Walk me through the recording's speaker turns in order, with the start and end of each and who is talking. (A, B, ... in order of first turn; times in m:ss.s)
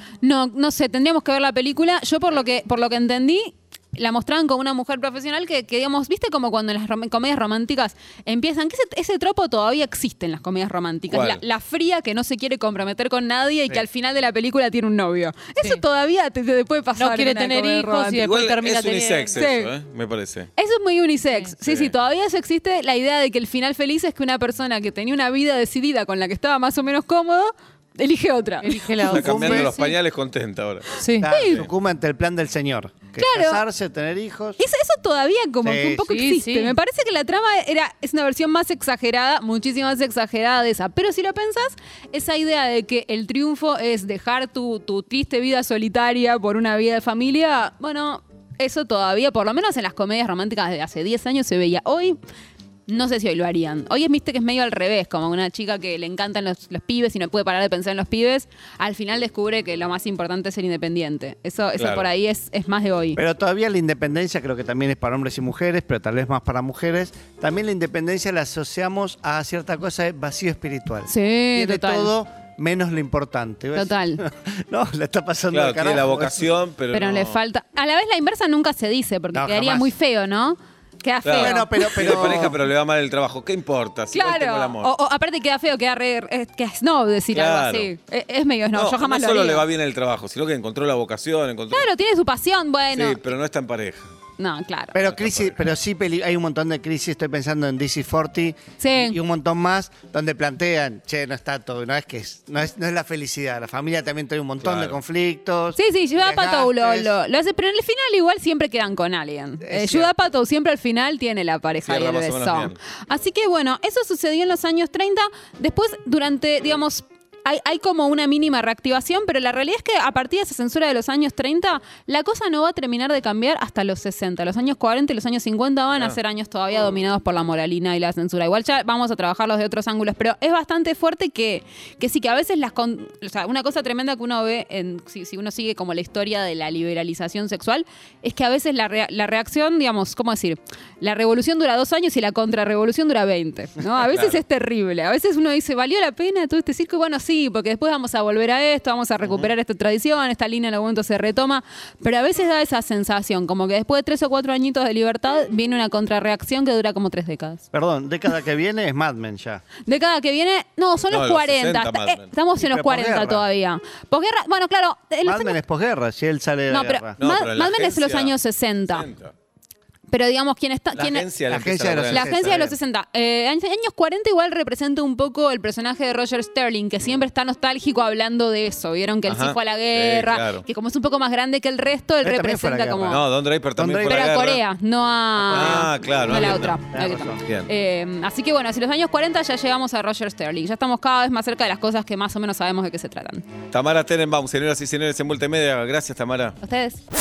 0:00.2-0:18.2 A
0:11.1-0:11.4 B
0:17.0-0:19.4 C
0:18.2-0:20.5 B
0:19.3-0:19.7 A
0:20.6-0:29.0 A
0:21.6-0:21.9 B
0:28.6-0:29.9 C
0:29.1-0:29.8 D
0:29.1-0:30.9 B
0:31.0-0:31.2 C
0:31.2-0:34.6 D
0:31.2-0:31.6 A
0:33.2-0:33.6 A
0:34.6-0:52.2 A
0:35.6-0:36.1 D
0:36.1-0:36.8 C
0:52.9-1:03.2 A
1:01.8-1:02.0 B
1:03.2-1:16.5 D
1:11.0-1:12.1 A
1:13.7-1:14.2 A
1:15.5-1:17.4 B
1:16.9-1:22.6 A
1:19.3-1:19.9 D
1:21.2-1:24.9 B
1:21.3-1:22.6 D
1:24.1-1:29.6 A
1:27.3-1:27.9 B
1:28.7-1:31.9 B
1:31.7-1:33.2 A
1:32.9-1:34.1 B
1:34.4-1:34.9 A
1:34.9-1:47.1 D
1:35.0-1:35.6 B
1:38.8-1:39.2 A
1:44.6-1:45.0 B
1:45.8-2:37.6 A
1:49.6-1:50.1 D
1:51.8-1:52.8 B
2:24.1-2:24.4 B
2:29.2-2:29.5 B
2:37.7-2:39.6 D
2:39.8-2:45.6 A
2:41.1-2:42.3 B
2:42.6-2:43.5 D
2:45.2-2:47.2 D
2:46.7-2:49.1 A
2:47.2-2:48.4 B
2:48.9-2:49.3 B
2:50.1-2:51.3 A
2:50.9-2:52.6 B
2:51.5-2:52.8 D
2:52.1-3:03.3 A
2:59.2-3:00.6 B
3:02.2-3:03.2 D
3:03.1-3:04.6 B
3:03.8-3:04.3 D
3:04.0-3:13.4 A
3:05.4-3:06.8 B
3:05.4-3:07.4 D
3:13.7-3:16.6 B
3:16.6-3:17.0 A